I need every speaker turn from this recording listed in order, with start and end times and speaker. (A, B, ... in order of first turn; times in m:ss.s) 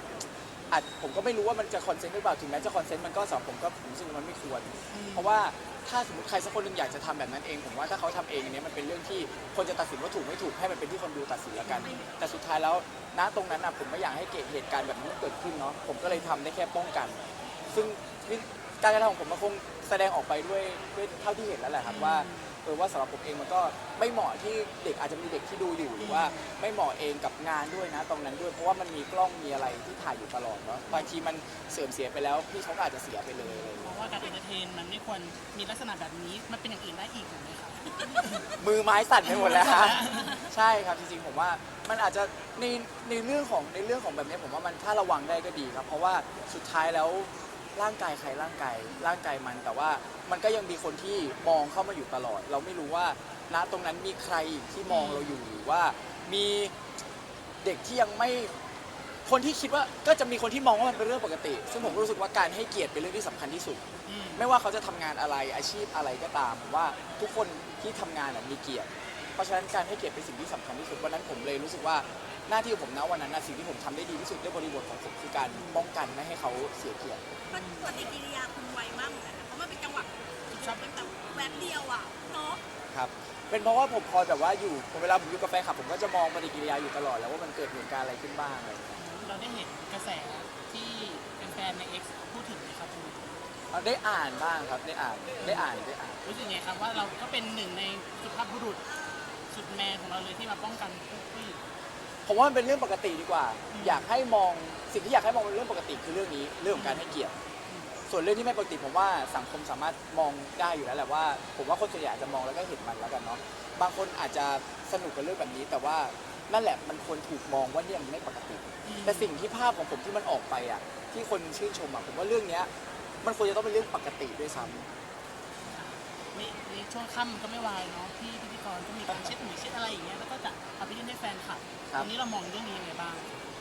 0:00.7-0:34.0 A
0:04.9-0:05.4 B
0:11.6-0:12.0 B
0:16.0-0:16.4 B
0:21.8-0:22.5 B
0:26.0-0:26.4 B
0:33.4-0:38.4 B
0:38.6-0:56.7 A
0:39.3-0:40.4 B
0:54.9-0:55.4 B
0:57.6-0:58.5 A
0:59.3-1:03.8 A
1:01.8-1:02.1 B
1:04.1-1:04.5 B
1:04.4-1:17.2 A
1:15.5-1:15.9 B
1:17.5-1:18.1 B
1:17.5-1:22.6 C
1:20.5-1:21.8 B
1:22.9-1:29.0 A
1:29.0-1:33.4 B
1:33.7-1:36.2 A
1:35.4-1:35.7 B
1:36.2-1:38.8 B
1:38.8-1:39.4 C
1:39.5-1:41.6 B
1:42.3-1:47.3 A
1:43.7-1:44.0 B
1:46.7-1:47.2 B
1:48.1-2:02.7 A
1:58.8-1:59.3 B
2:03.2-2:04.9 A
2:04.6-2:04.9 B
2:05.6-2:13.4 B